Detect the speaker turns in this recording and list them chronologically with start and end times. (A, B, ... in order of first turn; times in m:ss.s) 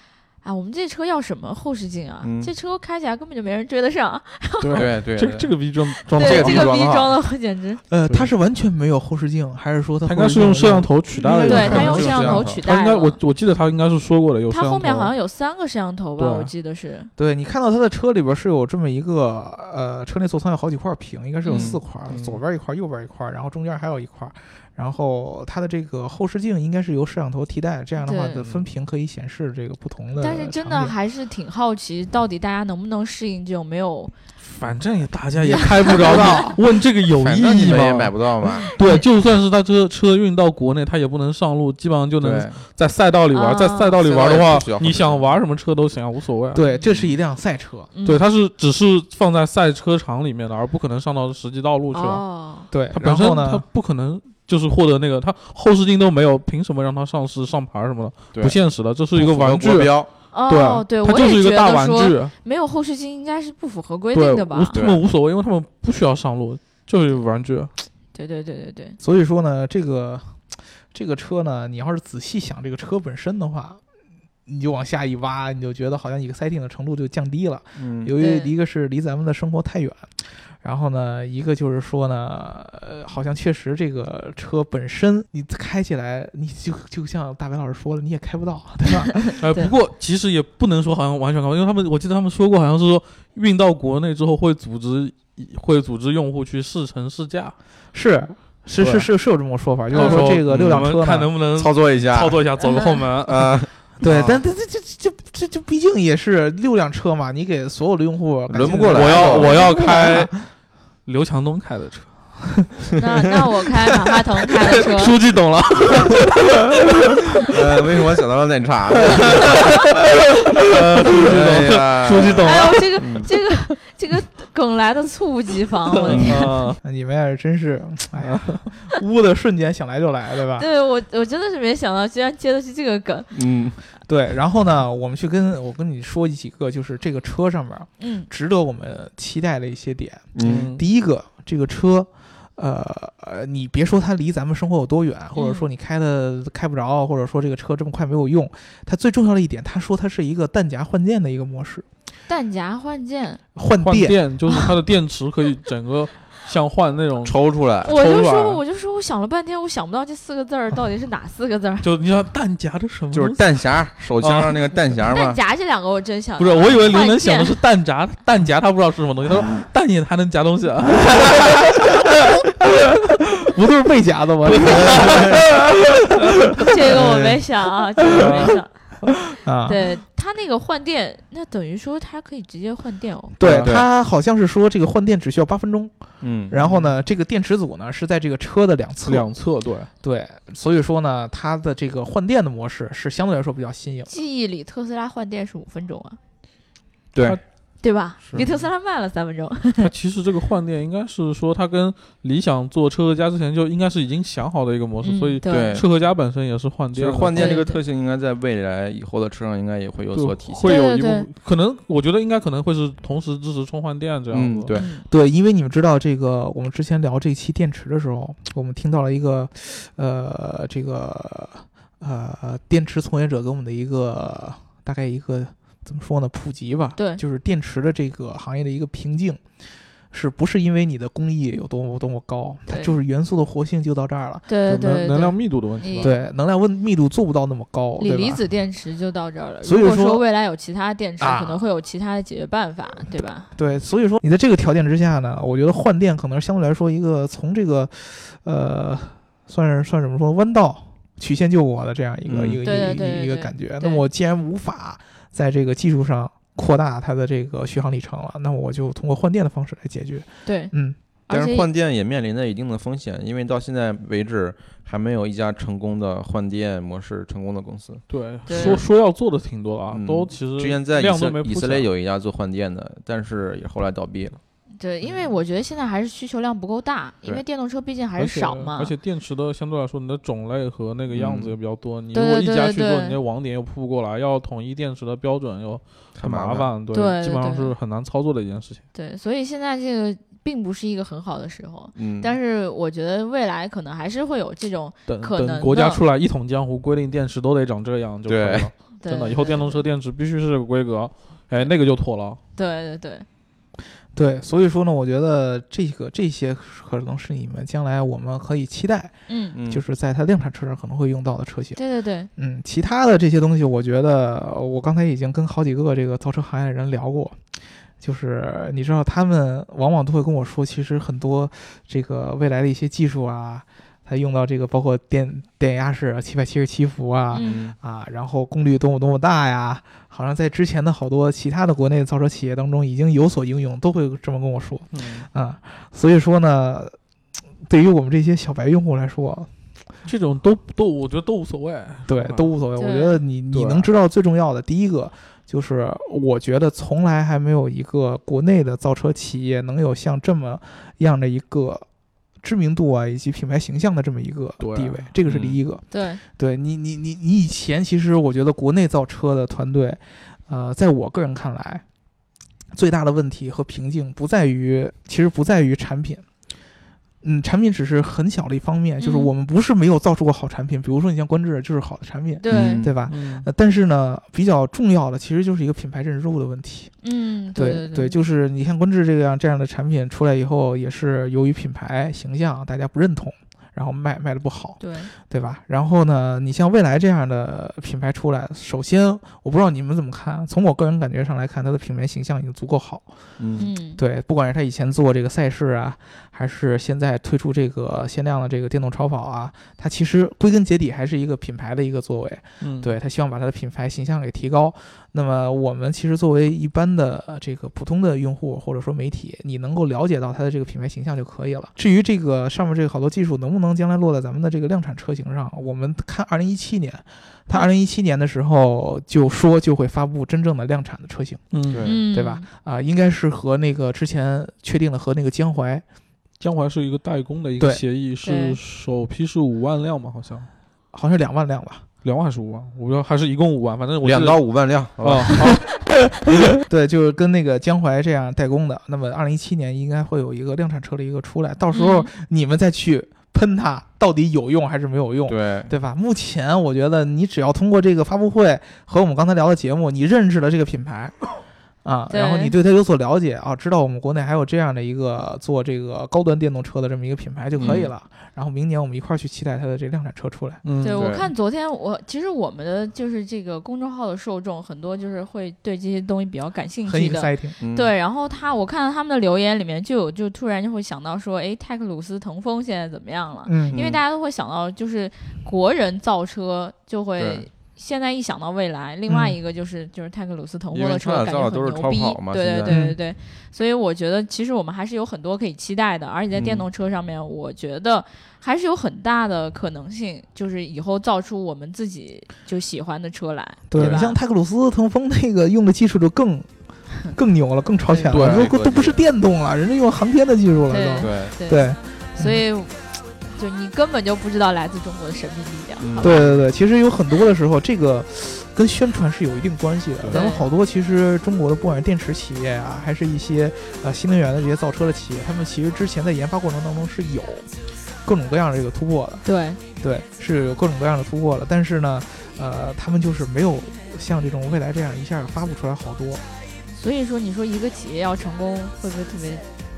0:00.4-0:04.9 A
0:02.2-0:02.5 B
0:04.6-0:06.7 C
0:04.7-0:05.5 B
0:06.1-0:07.8 A
0:06.1-0:07.1 B
0:07.9-0:12.4 D
0:10.1-0:15.1 C
0:11.4-0:13.2 A
0:11.8-0:12.4 B
0:14.5-0:17.1 A
0:16.2-0:16.5 C
0:17.2-0:30.9 D
0:21.4-0:21.7 A
0:21.5-0:21.8 B
0:22.0-0:22.4 C
0:28.0-0:28.4 A
0:28.4-0:28.7 C
0:30.2-0:34.1 A
0:34.4-0:46.7 C
0:35.5-0:36.5 A
0:35.8-0:36.6 D
0:37.2-0:38.6 B
0:38.6-0:39.0 A
0:42.2-0:42.6 B
0:43.3-0:44.0 A
0:44.0-0:45.3 B
0:46.5-0:47.9 D
0:47.9-0:48.2 A
0:48.0-0:52.2 C
0:51.9-0:52.7 A
0:52.7-0:53.6 D
0:52.9-1:02.3 C
0:59.1-1:00.1 B
1:00.3-1:04.7 A
1:04.1-1:07.7 C
1:04.7-1:05.0 B
1:08.1-1:09.0 A
1:09.0-1:13.8 D
1:14.4-1:29.4 D
1:17.8-1:18.1 B
1:18.2-1:18.5 A
1:29.4-1:37.5 C
1:37.9-1:41.3 D
1:38.8-1:39.1 C
1:39.9-1:44.4 C
1:40.0-1:40.9 B
1:41.5-1:42.4 B
1:42.6-1:43.1 A
1:43.2-1:44.3 B
1:44.0-1:50.3 D
1:48.5-1:49.7 B
1:48.6-1:50.5 C
1:51.0-1:52.2 C
1:53.0-1:55.1 A
1:54.9-1:57.0 C
1:57.5-1:59.7 B
1:59.0-2:03.3 C
2:00.8-2:03.3 B
2:02.4-2:06.4 A
2:06.0-2:06.8 C
2:06.1-2:06.5 B
2:06.7-2:10.7 D
2:08.2-2:08.7 C
2:10.6-2:13.3 A
2:13.3-2:13.8 B
2:14.1-2:31.9 D
2:18.0-2:18.3 A
2:20.3-2:20.7 B
2:20.4-2:20.8 C
2:25.3-2:25.7 A
2:32.3-2:33.4 A
2:33.6-2:34.2 D
2:33.8-2:38.6 C
2:37.2-2:37.9 B
2:37.8-2:41.9 A
2:41.8-2:43.4 C
2:43.1-2:45.4 B
2:44.2-2:44.7 C
2:45.1-2:47.6 A
2:46.4-2:51.9 C
2:53.4-2:56.6 D
2:54.4-2:55.4 C
2:54.7-2:55.4 B
2:56.6-3:03.4 A
2:56.9-2:57.4 B
2:58.1-2:58.5 C
2:59.4-2:59.8 D
3:03.4-3:05.9 D
3:03.4-3:03.8 C
3:03.4-3:03.9 B
3:06.2-3:06.7 B
3:06.5-3:09.3 D
3:09.0-3:09.9 C
3:10.0-3:14.1 D
3:14.1-3:16.2 A
3:17.1-3:17.4 B
3:17.8-3:19.9 A
3:18.3-3:18.6 C
3:19.8-3:27.6 C
3:25.0-3:25.8 A
3:25.5-3:25.9 B
3:26.9-3:30.7 B
3:27.3-3:27.8 A
3:30.1-3:34.7 C
3:30.6-3:31.3 A
3:34.3-3:34.9 B
3:34.7-3:35.0 A
3:35.0-3:49.4 D
3:47.0-3:47.2 A
3:50.1-3:54.4 D
3:52.7-3:53.0 A
3:54.5-3:56.1 A
3:54.7-3:56.1 C
3:56.0-3:58.4 D
3:58.0-4:03.5 A
3:59.6-4:00.2 D
4:01.2-4:01.6 D
4:03.5-4:21.0 D
4:12.3-4:12.6 B
4:12.6-4:14.0 A
4:20.4-4:20.7 A
4:21.3-4:21.7 A
4:21.3-4:28.8 B
4:28.1-4:31.9 C
4:28.5-4:28.8 A
4:29.9-4:34.4 B
4:34.8-4:38.9 A
4:38.2-4:48.8 C
4:41.1-4:41.5 B
4:42.1-4:43.2 A
4:46.2-4:46.7 B
4:46.9-4:47.7 A
4:48.9-4:56.0 A
4:52.0-4:52.4 B
4:55.1-5:02.4 C
4:58.3-4:58.7 B
4:59.0-4:59.8 A
5:02.6-5:03.3 A
5:04.1-5:11.8 D
5:09.3-5:09.6 A
5:09.5-5:09.8 B
5:11.8-5:12.3 A
5:12.4-5:17.4 D
5:18.0-5:37.0 D
5:27.3-5:27.7 A
5:27.4-5:27.7 B
5:34.9-5:35.3 C
5:37.6-5:39.5 D
5:40.0-5:42.5 C
5:42.1-5:51.8 D
5:42.8-5:43.2 A
5:43.5-5:43.9 C
5:52.4-6:01.8 D
5:54.6-5:55.1 C
5:55.3-5:55.6 B
5:55.9-5:56.2 A
6:02.7-6:06.2 D
6:07.2-6:16.9 D
6:09.0-6:09.3 A
6:12.4-6:12.9 A
6:12.5-6:12.9 B
6:13.1-6:13.5 C
6:17.0-6:18.2 A
6:17.6-6:33.2 D
6:24.8-6:25.1 A
6:33.4-6:33.7 B
6:33.6-6:34.0 A
6:34.0-7:01.5 D
6:42.6-6:42.9 C
7:01.5-7:01.9 C
7:01.7-7:02.0 B
7:01.8-7:02.5 A
7:02.0-7:05.8 D
7:06.4-7:10.5 C
7:08.2-7:08.6 A
7:10.9-7:11.9 D
7:12.0-7:15.6 C
7:14.0-7:15.6 B
7:16.6-7:31.2 D
7:21.7-7:22.1 A
7:25.3-7:25.7 B
7:31.8-7:40.6 D
7:32.1-7:32.6 A
7:37.6-7:37.9 B
7:40.6-7:41.1 C
7:40.8-8:14.2 A
7:40.9-7:41.3 B
7:46.9-7:47.6 D
7:47.6-7:47.9 B
7:53.4-7:53.8 D
7:53.7-7:54.0 B
7:57.2-7:57.5 B
7:59.1-7:59.4 D
8:00.7-8:02.8 B
8:02.7-8:03.0 D
8:06.3-8:06.7 B
8:13.7-8:16.5 D
8:13.7-8:14.0 B
8:17.1-8:22.4 D
8:18.1-8:18.5 C
8:18.1-8:19.0 B
8:20.7-8:26.2 A
8:21.0-8:21.3 B
8:25.8-8:26.4 B
8:26.0-8:37.5 D
8:30.1-8:30.5 A
8:38.0-8:39.2 D
8:39.2-8:39.6 A
8:39.8-8:46.2 D
8:46.7-8:49.4 A